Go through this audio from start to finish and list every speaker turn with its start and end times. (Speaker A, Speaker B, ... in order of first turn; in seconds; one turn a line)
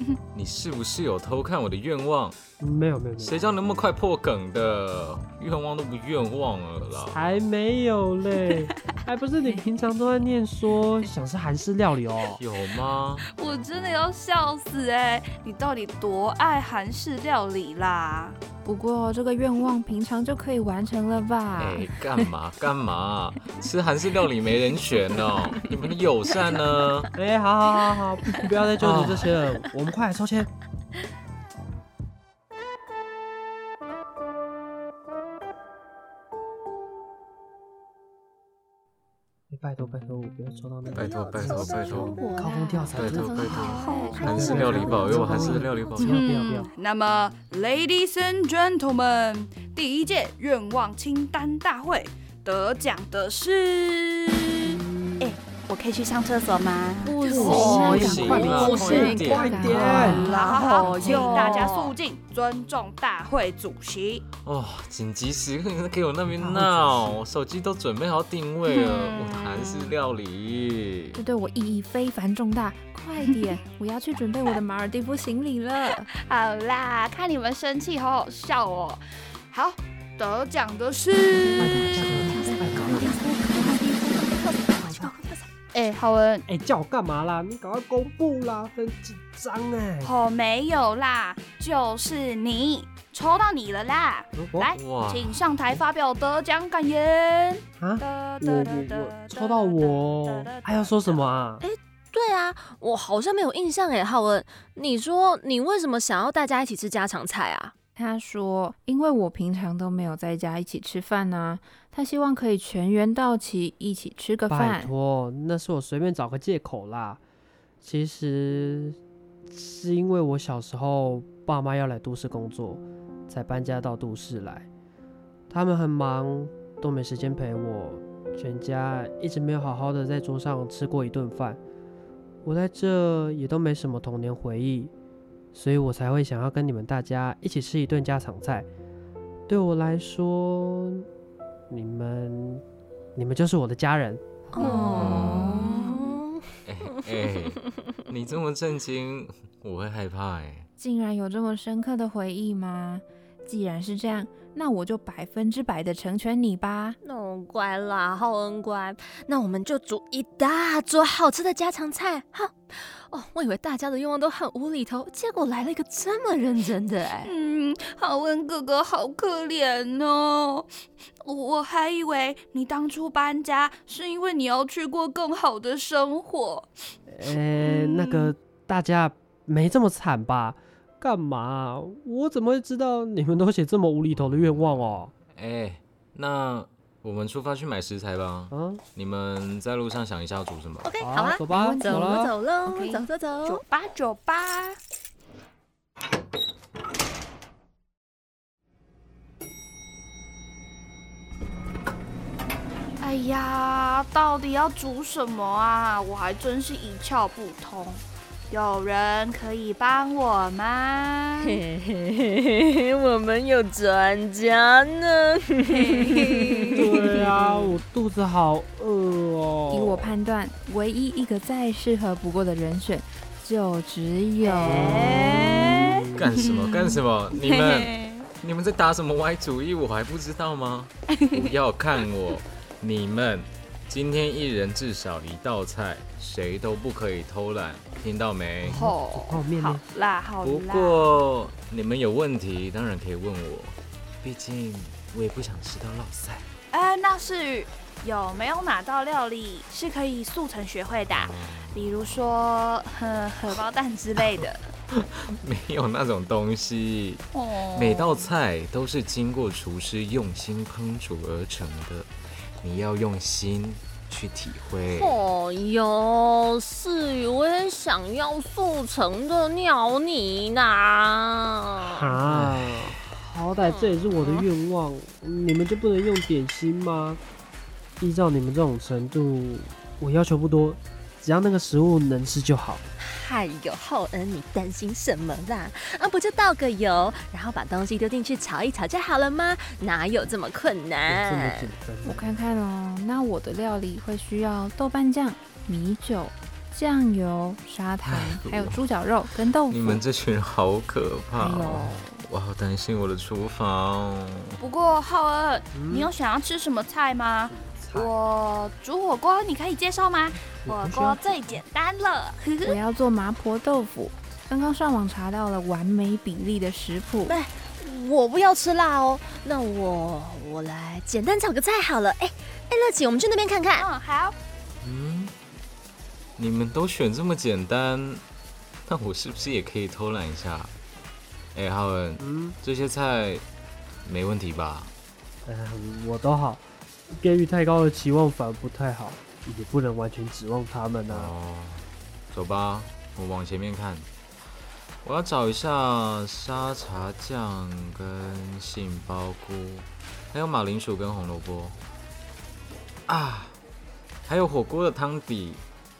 Speaker A: 0.3-2.4
Speaker B: 2.6-3.4
Speaker A: 3.2-7.2
Speaker B: 7.1-12.4
Speaker A: 12.3-13.2
Speaker C: 13.2-18.4
Speaker D: 18.6-22.3
Speaker A: 21.6-27.1
Speaker B: 27.2-30.5
Speaker A: 28.8-29.4
Speaker B: 39.5-46.7
Speaker E: 40.9-43.0
Speaker A: 40.9-42.2
Speaker D: 42.3-44.4
Speaker A: 42.9-46.1
Speaker C: 43.4-44.3
Speaker E: 43.9-46.1
Speaker C: 46.0-64.3
Speaker B: 54.6-55.4
Speaker E: 57.0-62.0
Speaker B: 57.2-60.3
Speaker D: 57.4-61.6
Speaker A: 57.9-60.1
Speaker A: 60.9-61.2
Speaker A: 64.4-71.2
Speaker B: 66.3-67.2
Speaker C: 68.7-69.9
Speaker D: 71.1-76.1
Speaker C: 76.2-79.0
Speaker C: 79.5-82.1
Speaker B: 81.6-83.5
Speaker E: 81.6-85.4
Speaker D: 82.3-83.3
Speaker A: 82.8-83.2
Speaker B: 84.8-85.1
Speaker C: 85.7-86.5
Speaker B: 86.5-90.1
Speaker C: 90.0-101.3
Speaker B: 94.3-94.7
Speaker A: 94.7-95.5
Speaker B: 97.8-101.6
Speaker E: 101.6-107.7
Speaker D: 108.0-114.9
Speaker B: 114.5-117.2
Speaker B: 117.8-119.0
Speaker B: 119.5-124.7
Speaker B: 125.5-131.6
Speaker B: 132.4-134.9
Speaker B: 135.5-138.7
Speaker B: 139.5-141.1
Speaker B: 141.7-142.6
Speaker B: 143.1-144.2
Speaker E: 144.5-147.6
Speaker D: 144.5-146.0
Speaker C: 144.6-145.0
Speaker A: 145.1-145.7
Speaker C: 145.6-146.0
Speaker A: 146.6-150.7
Speaker D: 150.8-157.0
Speaker E: 157.0-167.3
Speaker C: 167.2-170.7
Speaker C: 171.2-176.7
Speaker B: 177.1-185.1
Speaker C: 177.3-178.3
Speaker A: 184.1-184.5
Speaker A: 185.3-190.9
Speaker B: 188.5-188.8
Speaker E: 190.8-193.6
Speaker B: 191.0-192.3
Speaker D: 191.5-193.1
Speaker C: 193.4-194.8
Speaker C: 203.0-211.6
Speaker E: 211.4-217.0
Speaker C: 215.6-217.7
Speaker B: 216.8-220.1
Speaker D: 219.7-225.1
Speaker E: 224.6-225.9
Speaker B: 224.6-226.3
Speaker C: 224.8-228.3
Speaker A: 226.1-238.8
Speaker C: 231.2-232.0
Speaker B: 238.6-239.8
Speaker C: 238.7-241.2
Speaker A: 240.4-246.5
Speaker C: 246.7-254.7
Speaker A: 251.1-251.8
Speaker A: 254.9-265.1
Speaker C: 257.3-258.4
Speaker E: 264.8-272.2
Speaker B: 271.8-277.2
Speaker A: 272.3-273.0
Speaker E: 273.6-274.5
Speaker B: 278.0-282.8
Speaker E: 283.0-291.7
Speaker B: 291.1-292.3
Speaker D: 292.0-300.0
Speaker A: 298.0-298.8
Speaker A: 299.7-304.5
Speaker D: 301.3-302.2
Speaker C: 304.6-312.8
Speaker B: 305.7-306.1
Speaker B: 307.5-308.1
Speaker B: 310.6-311.6
Speaker D: 312.6-317.4
Speaker E: 317.2-323.9
Speaker C: 323.7-324.4
Speaker A: 324.8-325.3
Speaker A: 326.4-328.2
Speaker A: 328.8-330.7
Speaker A: 331.5-333.4
Speaker B: 332.2-332.6
Speaker A: 334.0-334.9
Speaker B: 335.4-341.3
Speaker A: 341.1-344.1
Speaker A: 345.0-351.8
Speaker A: 353.1-353.6
Speaker A: 354.2-355.6